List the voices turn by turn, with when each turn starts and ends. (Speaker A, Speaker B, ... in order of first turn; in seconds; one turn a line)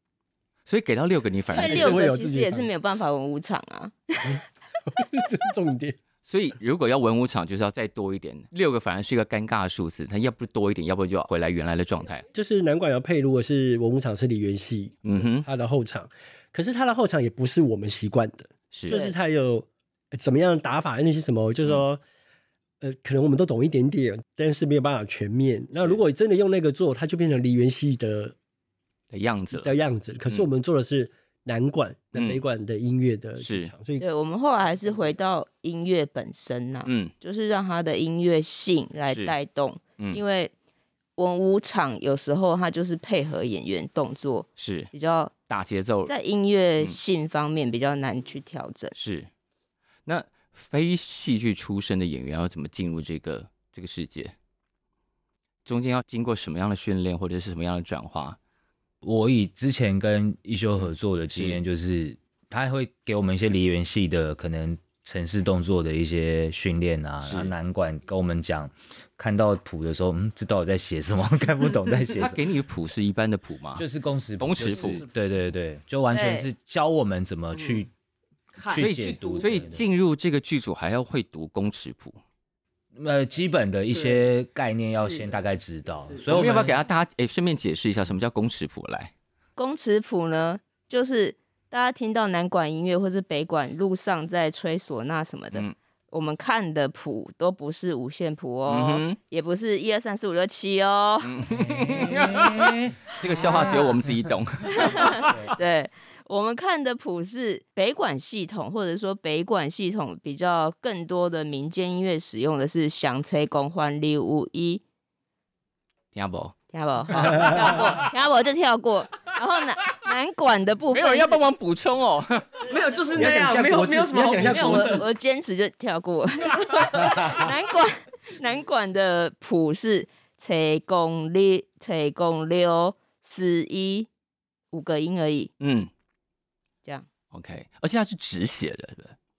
Speaker A: 0.7-2.0
Speaker B: 1.5-4.4
Speaker C: 1.5-2.7
Speaker C: 4.2-6.0
Speaker A: 6.2-12.2
Speaker C: 12.3-22.0
Speaker A: 15.0-15.4
Speaker A: 18.7-19.0
Speaker B: 18.9-19.1
Speaker C: 22.8-28.3
Speaker A: 25.8-26.0
Speaker A: 29.1-29.7
Speaker C: 29.5-34.0
Speaker A: 32.1-32.4
Speaker A: 33.4-33.7
Speaker B: 34.0-40.5
Speaker A: 36.9-37.1
Speaker A: 39.1-39.3
Speaker B: 41.2-45.3
Speaker A: 44.6-44.9
Speaker A: 45.5-46.1
Speaker B: 46.0-48.9
Speaker A: 49.0-49.3
Speaker A: 50.0-54.3
Speaker A: 55.6-58.4
Speaker D: 59.0-72.4
Speaker A: 60.8-61.6
Speaker A: 67.2-67.5
Speaker A: 72.1-73.8
Speaker D: 73.8-77.9
Speaker A: 74.4-75.0
Speaker B: 76.1-76.5
Speaker E: 77.5-77.8
Speaker E: 78.6-79.6
Speaker D: 78.6-79.8
Speaker A: 78.7-82.2
Speaker D: 82.9-86.8
Speaker E: 83.9-84.2
Speaker E: 86.0-86.4
Speaker A: 86.3-89.1
Speaker B: 89.6-101.3
Speaker A: 98.7-99.2
Speaker A: 101.2-105.5
Speaker D: 101.5-103.7
Speaker B: 104.7-114.8
Speaker D: 105.2-105.5
Speaker A: 116.1-116.5
Speaker B: 116.7-121.4
Speaker A: 117.1-118.0
Speaker A: 120.9-122.6
Speaker E: 122.6-125.0
Speaker C: 123.1-125.0
Speaker B: 124.4-134.1
Speaker B: 134.7-135.5
Speaker A: 135.6-135.9
Speaker A: 137.3-139.2